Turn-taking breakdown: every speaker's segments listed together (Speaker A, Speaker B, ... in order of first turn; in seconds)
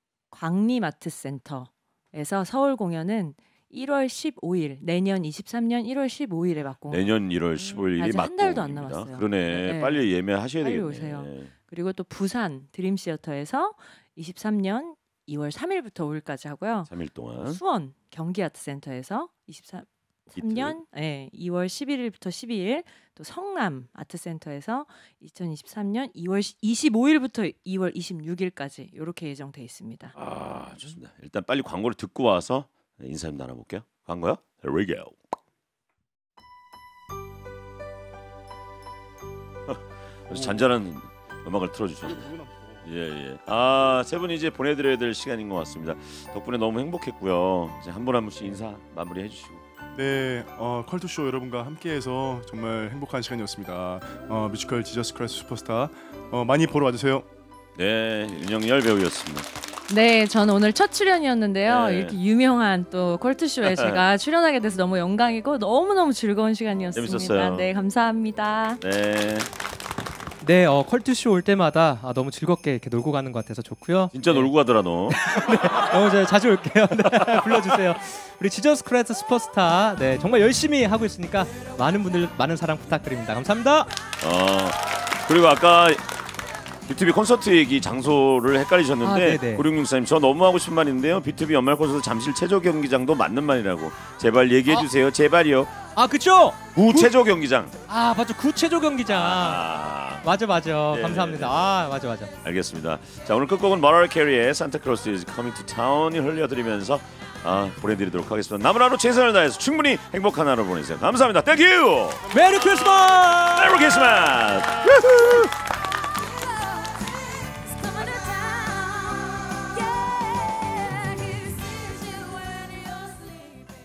Speaker A: 0.3-10.1, 10.6-30.1, 59.9-68.8, 117.8-123.4
Speaker B: 6.9-11.5, 16.9-17.6, 20.4-20.8, 30.1-35.2, 39.7-42.2, 42.8-49.6, 57.8-59.5, 61.7-62.2, 63.6-64.0, 67.0-67.7, 68.8-69.5, 74.1-75.2, 77.3-77.7, 84.2-86.0, 86.9-95.8, 96.7-97.8, 99.1-100.2, 100.9-101.7, 102.4-112.2, 113.5-115.5
Speaker C: 40.3-40.7, 42.0-42.9, 50.0-57.3
Speaker D: 70.4-74.5, 75.1-83.9, 89.0-89.7, 96.0-97.1, 97.9-99.6, 100.2-102.3, 112.3-113.9